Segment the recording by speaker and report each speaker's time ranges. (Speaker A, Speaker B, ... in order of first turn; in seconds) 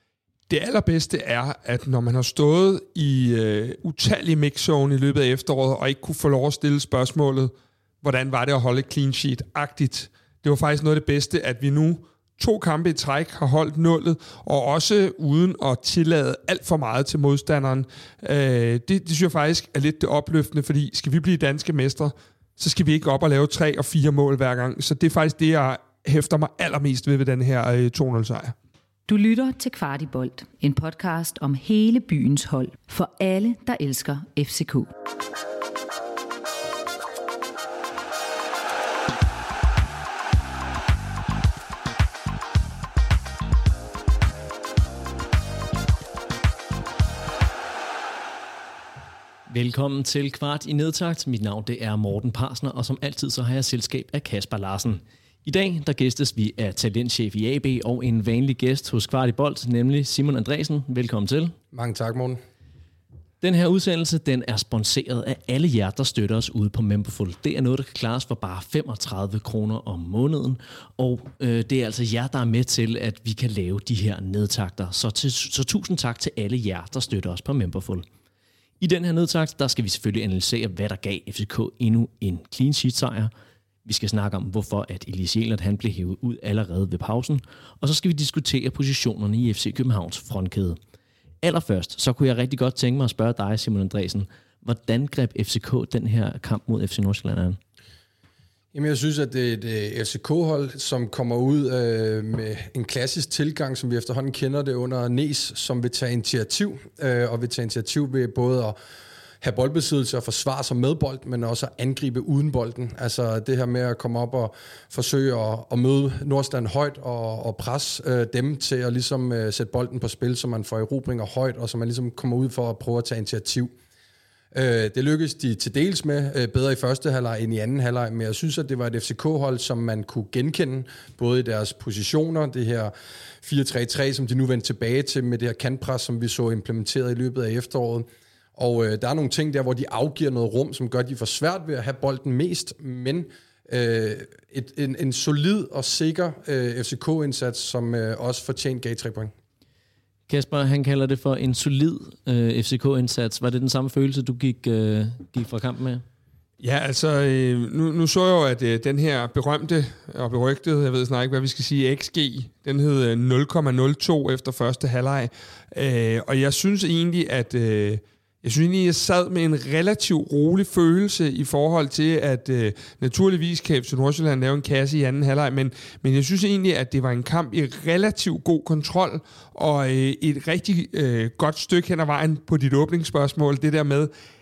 Speaker A: 0.5-7.5, 8.0-28.6, 156.6-184.1
Speaker B: 29.1-34.9
Speaker C: 49.5-61.5, 63.4-78.0, 78.8-83.3, 83.8-90.8, 91.4-97.6, 150.3-156.0
Speaker D: 61.7-62.4, 98.7-108.8, 109.4-123.7, 124.5-149.3